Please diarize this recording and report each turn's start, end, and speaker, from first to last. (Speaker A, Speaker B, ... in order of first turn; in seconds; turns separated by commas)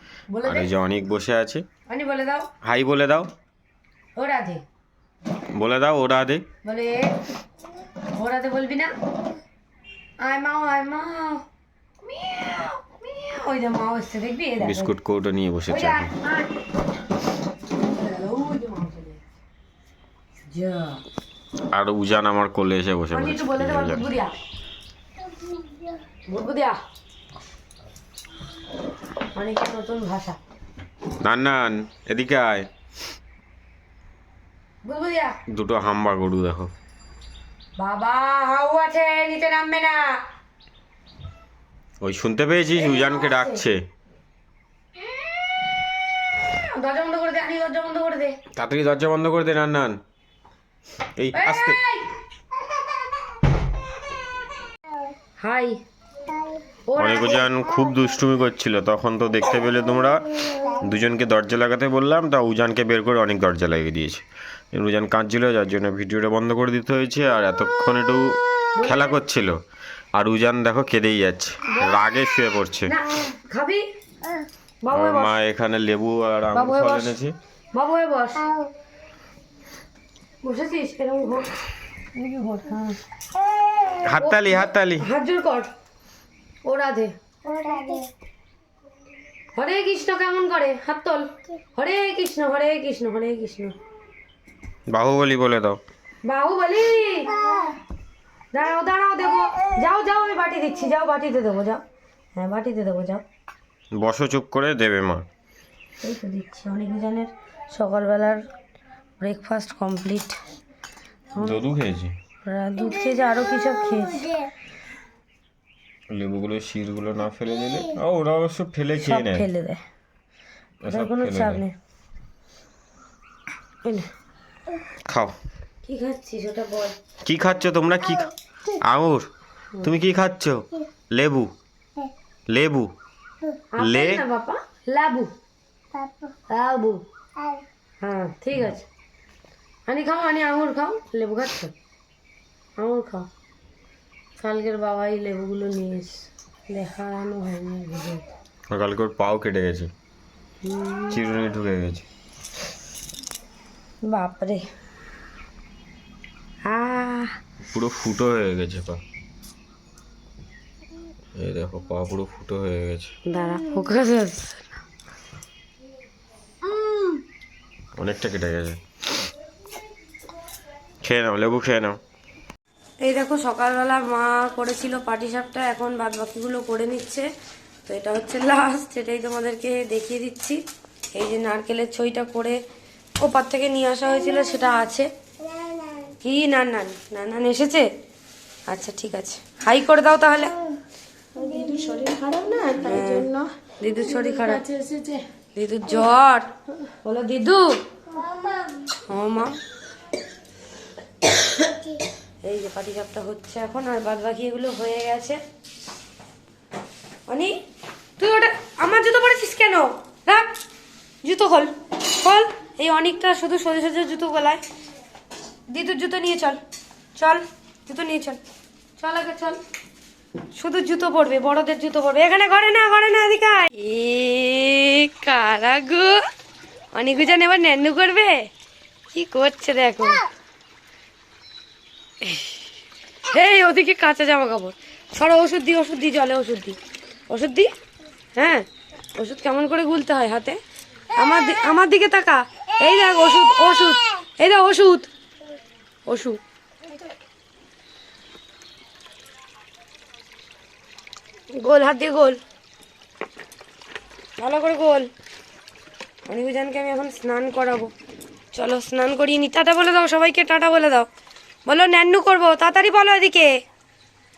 Speaker A: 0.3-0.7, Speaker B: 0.4-1.6, Speaker A: 1.9-2.5, Speaker B: 2.6-3.3, Speaker A: 4.2-4.6, Speaker B: 5.5-6.5, Speaker A: 6.6-7.1, Speaker A: 8.2-8.9, Speaker A: 10.2-11.4, Speaker A: 12.1-14.9, Speaker B: 14.6-16.1, Speaker A: 15.7-16.4, Speaker A: 17.8-19.2, Speaker A: 20.5-21.0, Speaker B: 21.7-24.0, Speaker A: 23.1-24.3, Speaker A: 26.3-26.8, Speaker A: 29.3-30.4, Speaker B: 31.2-32.7, Speaker A: 34.8-35.4, Speaker B: 35.5-36.7, Speaker A: 37.8-40.2, Speaker B: 42.0-43.9, Speaker A: 42.8-43.6, Speaker A: 46.4-48.4, Speaker B: 48.5-50.0, Speaker B: 51.2-51.8, Speaker A: 51.3-52.1, Speaker A: 55.4-55.8, Speaker A: 56.9-57.5, Speaker B: 57.0-69.6, Speaker A: 68.8-69.2, Speaker B: 70.1-72.9, Speaker A: 72.9-73.8, Speaker A: 74.8-75.3, Speaker B: 74.9-77.3, Speaker A: 76.5-77.1, Speaker A: 77.7-78.4, Speaker A: 80.4-81.5, Speaker A: 82.2-83.0, Speaker B: 84.0-85.1, Speaker A: 84.2-85.7, Speaker A: 86.6-87.1, Speaker A: 89.5-93.7, Speaker B: 94.9-95.8, Speaker A: 96.2-97.3, Speaker A: 98.5-101.8, Speaker A: 102.3-103.2, Speaker B: 103.9-105.3, Speaker A: 106.0-108.4, Speaker A: 109.2-110.4, Speaker A: 111.3-111.6, Speaker B: 111.4-112.1, Speaker A: 112.4-114.3, Speaker B: 116.1-119.4, Speaker A: 119.0-119.8, Speaker B: 120.8-121.6, Speaker A: 120.9-121.7, Speaker B: 125.1-125.3, Speaker A: 125.8-126.9, Speaker B: 127.2-129.3, Speaker B: 129.8-131.5, Speaker B: 132.5-132.9, Speaker A: 133.7-135.3, Speaker B: 133.8-134.2, Speaker A: 136.5-137.0, Speaker A: 138.0-138.8, Speaker A: 139.9-141.7, Speaker A: 142.8-143.3, Speaker A: 144.4-148.2, Speaker B: 148.7-149.9, Speaker A: 150.6-151.2, Speaker B: 151.1-152.1, Speaker A: 154.0-154.7, Speaker A: 156.6-157.3, Speaker B: 157.7-159.0, Speaker B: 161.3-163.1, Speaker A: 163.3-164.7, Speaker B: 168.0-168.8, Speaker B: 171.0-172.0, Speaker A: 173.0-177.3, Speaker A: 177.8-180.6, Speaker A: 181.1-182.6, Speaker A: 183.2-185.1, Speaker A: 186.2-187.9, Speaker A: 188.7-190.5, Speaker C: 191.3-193.5, Speaker A: 192.8-193.3, Speaker A: 193.8-194.6, Speaker C: 194.2-195.2, Speaker A: 195.5-196.5, Speaker A: 197.0-197.8, Speaker A: 199.1-199.6, Speaker A: 202.4-205.4, Speaker A: 207.3-207.5, Speaker A: 208.2-210.5, Speaker A: 211.2-214.6, Speaker A: 215.7-216.6, Speaker A: 217.2-218.4, Speaker A: 219.0-219.6, Speaker A: 220.6-226.2, Speaker A: 226.9-228.5, Speaker A: 229.1-230.2, Speaker A: 232.2-232.6, Speaker A: 233.3-236.8, Speaker A: 237.3-237.7, Speaker A: 238.3-238.7, Speaker A: 239.2-240.6, Speaker A: 241.2-245.1, Speaker A: 246.1-246.4, Speaker A: 251.6-252.4, Speaker A: 254.4-255.1, Speaker A: 256.3-257.9, Speaker A: 258.5-261.1, Speaker A: 261.7-263.6